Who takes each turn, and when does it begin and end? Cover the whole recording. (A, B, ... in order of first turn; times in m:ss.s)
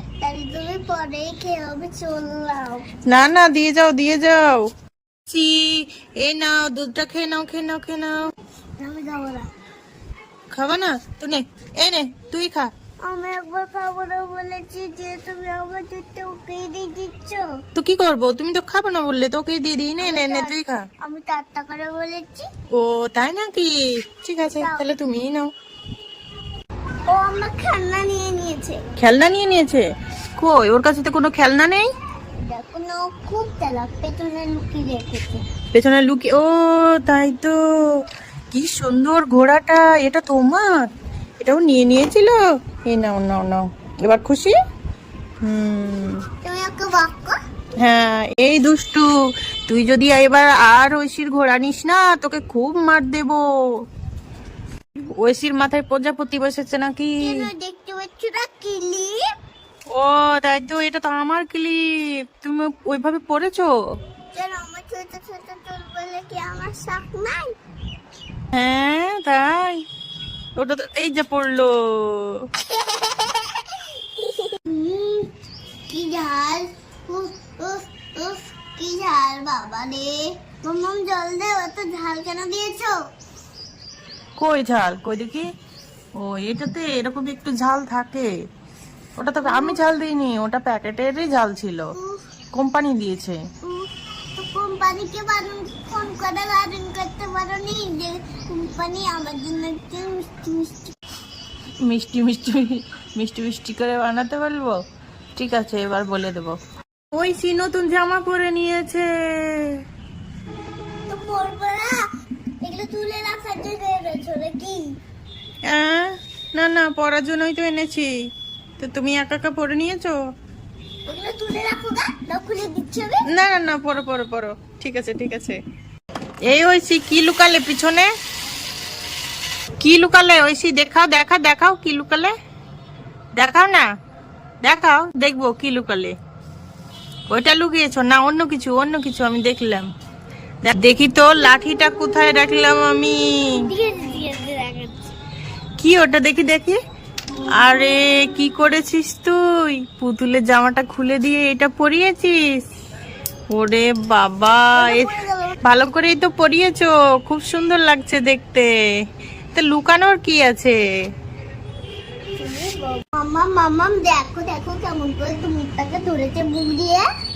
0:00.2-0:02.9 A
0:03.1-0:04.6 B
0:05.3-0:08.2 B
0:08.8-0:09.5 A
0:10.5-0:12.7 B
0:13.0-0:17.5 A
0:17.7-0:20.8 B
0:20.0-0:22.5 A
0:22.7-0:25.5 B
0:24.6-0:24.9 A
0:27.1-0:28.8 A
0:29.0-0:29.8 B
0:30.4-0:31.9 B
0:32.5-0:35.4 A
0:35.7-0:37.6 B
0:38.5-0:40.9 B
0:41.4-0:44.5 B
0:45.4-0:46.2 B
0:46.4-0:47.4 A
0:47.8-0:49.1 B
0:49.7-0:53.8 B
0:55.2-0:57.5 B
0:57.2-0:59.2 A
0:59.9-1:03.7 B
1:04.3-1:07.5 A
1:08.5-1:09.8 B
1:10.6-1:12.5 B
1:12.7-1:13.6 A
1:14.2-1:15.3 A
1:15.9-1:23.0 A
1:24.4-1:25.4 B
1:26.2-1:28.3 B
1:29.2-1:31.9 B
1:29.4-1:29.8 A
1:31.9-1:32.2 A
1:32.5-1:33.4 B
1:33.6-1:41.0 A
1:41.8-1:44.8 B
1:45.4-1:46.6 B
1:47.1-1:49.8 B
1:51.1-1:52.0 A
1:52.6-1:54.8 A
1:55.6-1:58.1 B
1:58.8-2:00.2 B
2:01.0-2:03.2 A
2:03.3-2:05.6 B
2:06.4-2:08.1 B
2:09.8-2:12.3 B
2:13.3-2:13.8 B
2:14.6-2:16.1 B
2:17.3-2:19.9 B
2:20.6-2:23.6 B
2:23.5-2:25.0 A
2:25.8-2:26.8 B
2:27.5-2:32.4 B
2:33.5-2:35.1 B
2:34.8-2:35.6 A
2:35.6-2:38.7 B
2:39.5-2:40.8 B
2:42.4-2:47.1 A